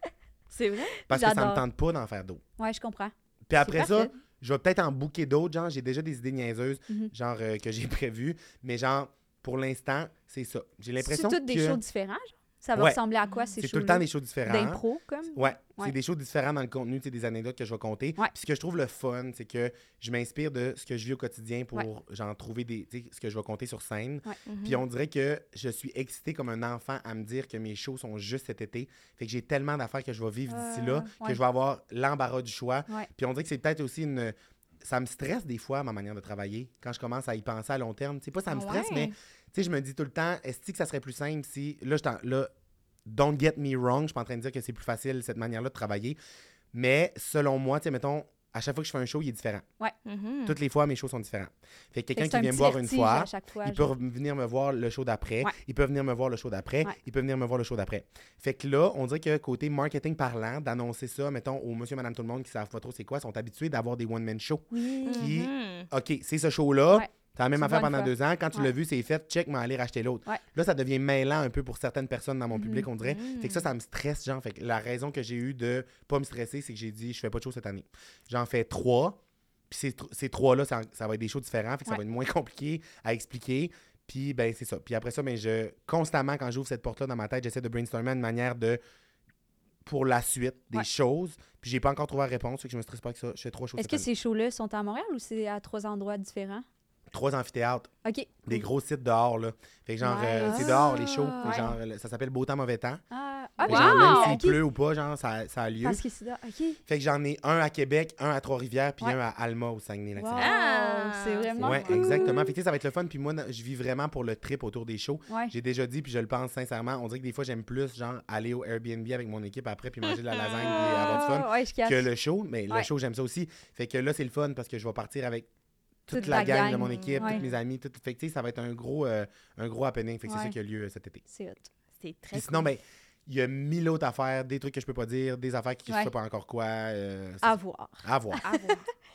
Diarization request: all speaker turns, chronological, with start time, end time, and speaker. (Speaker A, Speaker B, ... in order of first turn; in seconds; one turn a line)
Speaker A: 0.5-1.0
Speaker B: 1.1-1.6
Speaker C: 1.1-2.4
Speaker B: 2.6-4.2
Speaker C: 3.5-11.8
Speaker B: 11.0-15.9
Speaker C: 13.6-14.8
Speaker C: 15.3-42.5
Speaker A: 24.4-24.8
Speaker B: 30.5-31.4
Speaker A: 38.5-39.1
Speaker C: 43.0-46.2
Speaker C: 46.7-49.6
Speaker A: 50.0-50.5
Speaker C: 50.5-79.2
Speaker B: 52.1-53.9
Speaker B: 64.7-65.3
Speaker A: 65.1-65.9
Speaker B: 66.9-68.7
Speaker B: 72.5-72.9
Speaker A: 73.0-73.7
Speaker C: 79.7-88.8
Speaker C: 89.8-94.1
Speaker B: 93.8-96.7
Speaker C: 97.1-97.9
Speaker B: 98.0-98.6
Speaker C: 98.5-103.0
Speaker B: 100.0-101.7
Speaker A: 100.4-101.7
Speaker B: 103.1-104.6
Speaker A: 103.6-104.4
Speaker C: 103.6-106.0
Speaker B: 105.8-106.8
Speaker C: 106.9-110.5
Speaker B: 110.2-112.5
Speaker A: 110.3-112.4
Speaker C: 111.6-125.5
Speaker A: 120.0-121.3
Speaker B: 120.6-122.1
Speaker C: 126.1-131.2
Speaker B: 126.1-127.4
Speaker A: 126.2-127.6
Speaker B: 130.2-130.5
Speaker B: 131.3-131.6
Speaker A: 132.0-132.7
Speaker C: 132.3-138.4
Speaker B: 137.4-138.8
Speaker A: 138.4-138.9